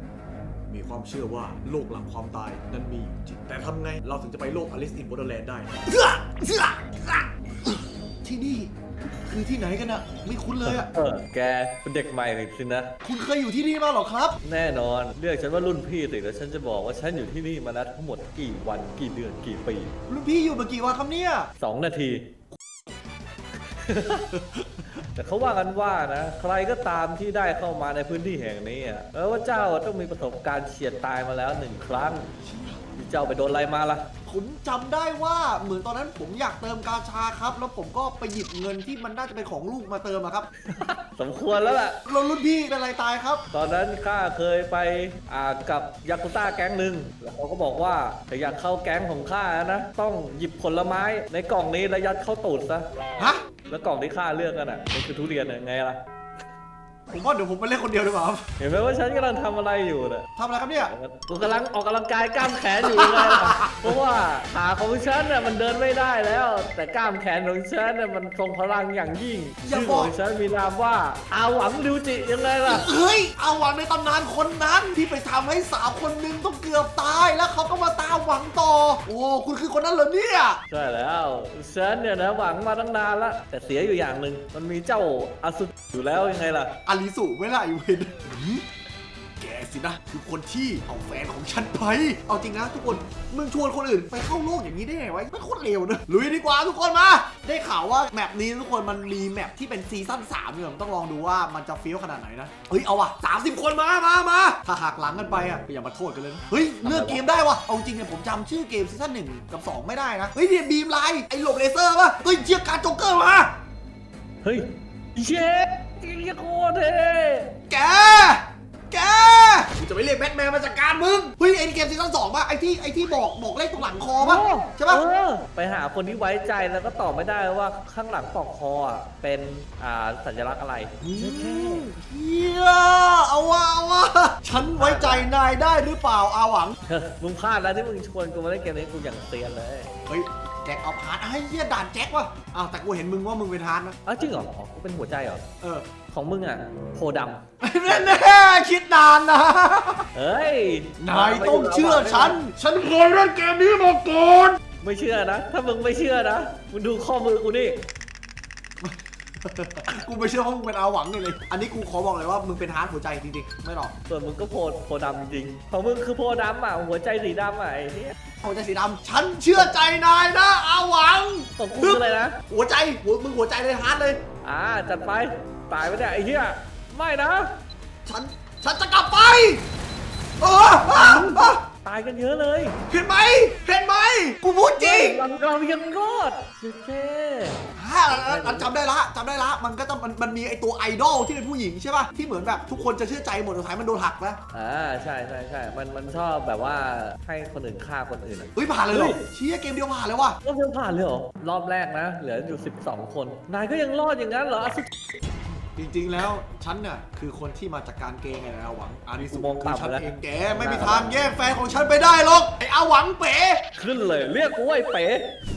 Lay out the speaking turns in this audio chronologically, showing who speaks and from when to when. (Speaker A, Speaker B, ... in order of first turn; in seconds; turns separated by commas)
Speaker A: 0.7-8.7, Speaker A: 9.2-10.9, Speaker B: 10.6-12.9, Speaker A: 13.0-14.4, Speaker B: 14.4-19.9, Speaker A: 20.1-21.5, Speaker B: 21.6-22.2, Speaker B: 23.8-24.3, Speaker A: 24.3-24.9, Speaker B: 25.1-32.3, Speaker A: 32.4-32.8, Speaker B: 33.0-34.1, Speaker A: 34.2-40.5, Speaker B: 40.6-42.0, Speaker A: 42.0-43.4, Speaker B: 43.5-52.9, Speaker A: 53.2-53.4, Speaker B: 53.7-56.0, Speaker A: 57.1-58.5, Speaker B: 58.6-60.3, Speaker A: 60.4-60.9, Speaker B: 60.8-72.9, Speaker A: 62.8-63.9, Speaker A: 69.6-70.1, Speaker A: 72.6-80.6, Speaker B: 80.7-86.7, Speaker A: 86.8-88.7, Speaker A: 89.4-113.5, Speaker B: 106.8-107.2, Speaker B: 114.4-117.5, Speaker A: 117.7-125.0, Speaker B: 124.2-131.9, Speaker A: 131.0-136.8, Speaker B: 134.7-135.3, Speaker B: 136.8-139.9, Speaker A: 140.1-143.9, Speaker B: 144.1-145.4, Speaker A: 145.6-145.9, Speaker B: 146.1-148.2, Speaker A: 147.6-150.1, Speaker B: 150.1-152.4, Speaker A: 151.0-154.6, Speaker B: 154.8-157.8, Speaker A: 158.8-163.9, Speaker B: 164.1-168.2, Speaker A: 168.4-174.2, Speaker B: 171.6-172.4, Speaker B: 174.4-177.5, Speaker A: 178.1-179.6, Speaker A: 180.4-181.6, Speaker B: 180.7-182.8, Speaker A: 182.9-185.2, Speaker B: 184.8-188.7, Speaker A: 187.7-194.4, Speaker B: 194.5-199.2, Speaker A: 198.5-200.4, Speaker B: 200.4-204.9, Speaker A: 205.8-213.6, Speaker B: 209.2-211.3, Speaker B: 213.8-215.3